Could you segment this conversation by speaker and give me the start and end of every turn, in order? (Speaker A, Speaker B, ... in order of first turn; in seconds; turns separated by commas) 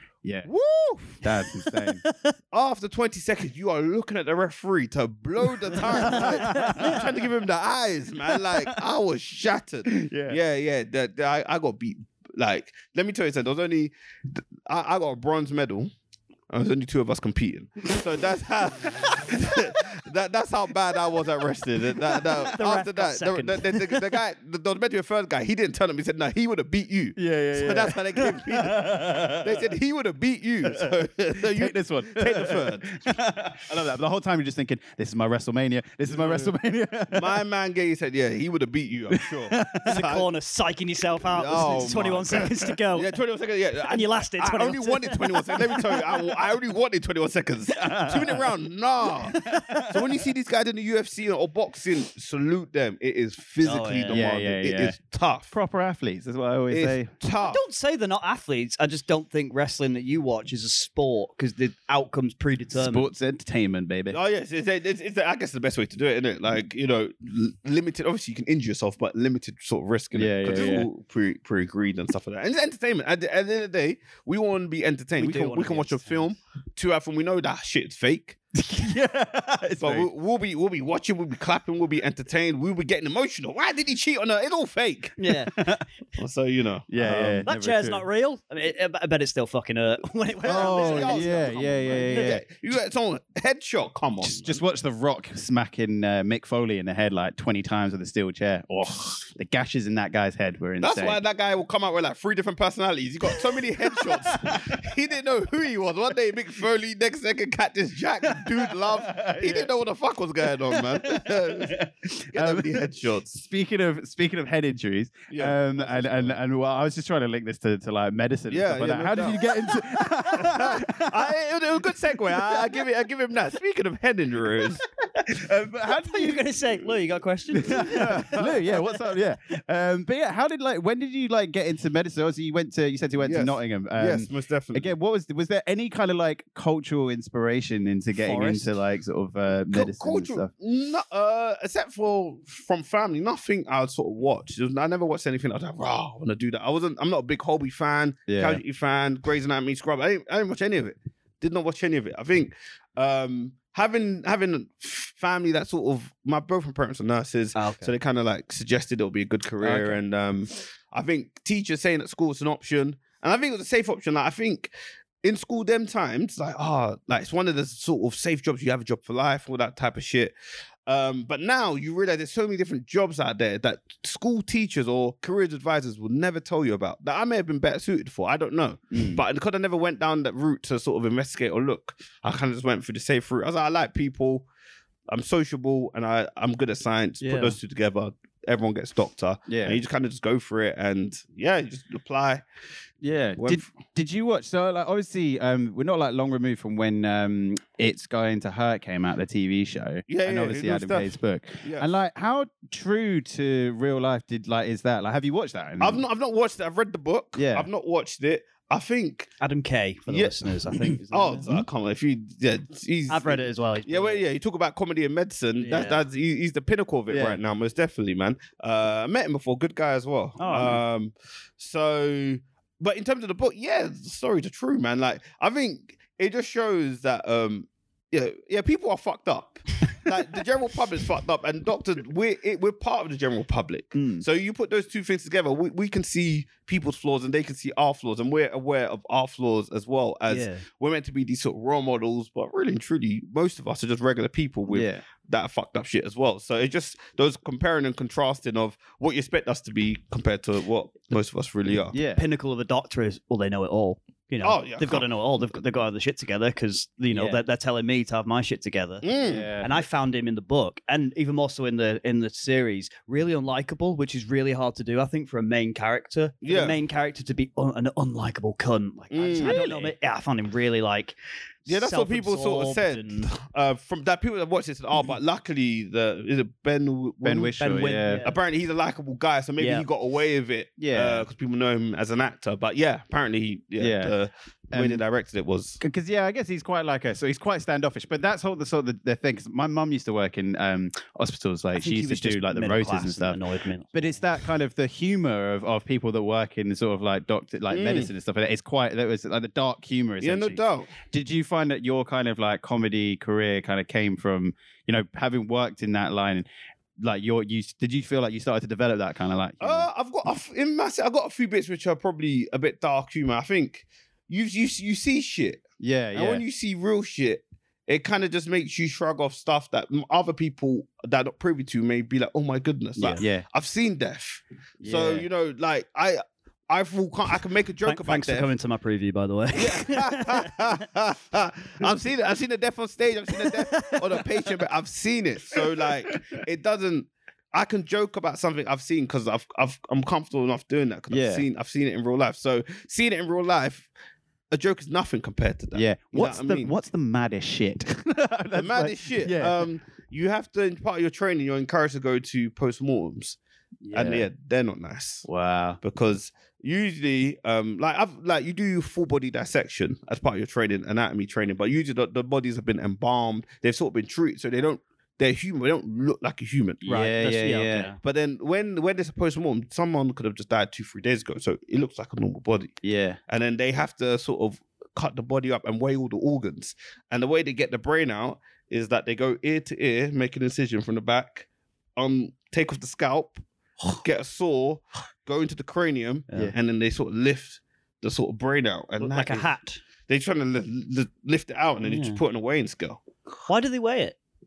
Speaker A: 0.2-0.5, Speaker B: 0.4-1.2, Speaker A: 1.2-2.0, Speaker B: 2.5-15.9, Speaker C: 5.8-7.0, Speaker A: 5.9-7.1, Speaker A: 8.3-8.8, Speaker A: 9.9-10.4, Speaker B: 16.5-33.1, Speaker C: 22.4-23.9, Speaker A: 27.1-29.7, Speaker A: 30.6-37.4, Speaker B: 36.1-36.5, Speaker B: 37.1-40.3, Speaker A: 39.1-40.0, Speaker C: 39.8-43.1, Speaker B: 41.3-55.5, Speaker C: 43.8-45.9, Speaker A: 47.7-48.5, Speaker A: 49.3-50.0, Speaker C: 49.3-49.9, Speaker C: 53.6-54.2, Speaker A: 54.1-55.0, Speaker A: 55.5-57.1, Speaker B: 56.7-57.6, Speaker C: 57.4-63.1, Speaker A: 62.8-64.2, Speaker B: 64.1-78.4, Speaker A: 70.1-70.9, Speaker C: 75.2-76.2, Speaker A: 78.5-80.1, Speaker B: 79.8-85.2, Speaker C: 85.2-85.5, Speaker A: 85.5-85.8, Speaker B: 86.2-87.5, Speaker A: 86.9-88.0, Speaker C: 87.5-92.4, Speaker B: 90.4-94.6, Speaker A: 90.4-92.5, Speaker A: 94.2-101.2, Speaker B: 100.8-113.4, Speaker A: 103.4-104.8, Speaker A: 108.3-109.7, Speaker A: 110.7-121.3, Speaker B: 115.3-116.4, Speaker B: 118.5-124.8, Speaker C: 125.1-128.4, Speaker A: 125.3-126.4, Speaker A: 127.6-140.5, Speaker B: 127.7-128.6, Speaker B: 133.2-134.9, Speaker C: 138.2-138.7, Speaker B: 139.7-164.7, Speaker A: 148.3-148.6, Speaker C: 157.5-157.9, Speaker A: 159.6-160.0, Speaker B: 165.2-170.3, Speaker B: 170.9-184.4, Speaker A: 178.9-179.2, Speaker B: 185.1-192.4, Speaker C: 187.2-187.5, Speaker A: 189.5-189.8, Speaker A: 193.0-206.0, Speaker B: 193.4-193.7, Speaker B: 200.1-201.9, Speaker B: 205.8-209.3, Speaker A: 207.3-207.7, Speaker C: 209.4-211.5, Speaker B: 210.1-210.3, Speaker B: 211.1-252.0, Speaker C: 213.1-214.2, Speaker C: 215.6-216.0, Speaker A: 217.1-217.4, Speaker C: 220.4-220.8, Speaker C: 233.9-234.2, Speaker C: 240.3-240.6, Speaker A: 244.7-245.0, Speaker A: 251.9-252.2, Speaker C: 252.1-259.1, Speaker B: 254.4-255.5, Speaker A: 257.1-257.4, Speaker B: 259.0-259.5, Speaker A: 259.1-259.8, Speaker C: 259.6-273.3, Speaker B: 266.4-266.8, Speaker B: 269.1-269.6, Speaker A: 269.4-269.9, Speaker B: 271.7-285.8, Speaker A: 277.2-278.2, Speaker C: 277.6-278.4, Speaker C: 279.6-279.9, Speaker A: 280.8-281.3, Speaker A: 283.8-284.1, Speaker A: 284.7-285.0, Speaker A: 285.8-293.4, Speaker C: 291.7-294.4, Speaker A: 293.9-306.4, Speaker B: 297.7-298.1, Speaker B: 300.2-300.9, Speaker A: 307.0-309.9, Speaker B: 309.6-328.5, Speaker A: 315.8-316.4, Speaker C: 323.0-323.2, Speaker A: 323.1-323.4, Speaker A: 324.8-325.3, Speaker C: 327.9-330.7, Speaker B: 329.5-343.9, Speaker C: 333.4-334.2, Speaker A: 341.1-341.4, Speaker B: 344.5-346.7, Speaker A: 345.7-349.7, Speaker B: 348.5-353.4, Speaker A: 353.8-354.3, Speaker B: 353.9-355.3, Speaker A: 355.2-355.8, Speaker B: 355.8-367.0, Speaker C: 366.8-368.0, Speaker A: 366.9-367.9, Speaker B: 368.0-372.8, Speaker A: 372.8-373.2, Speaker B: 373.3-389.5, Speaker C: 389.0-389.8, Speaker B: 390.1-393.0, Speaker C: 391.8-392.2, Speaker C: 393.5-394.2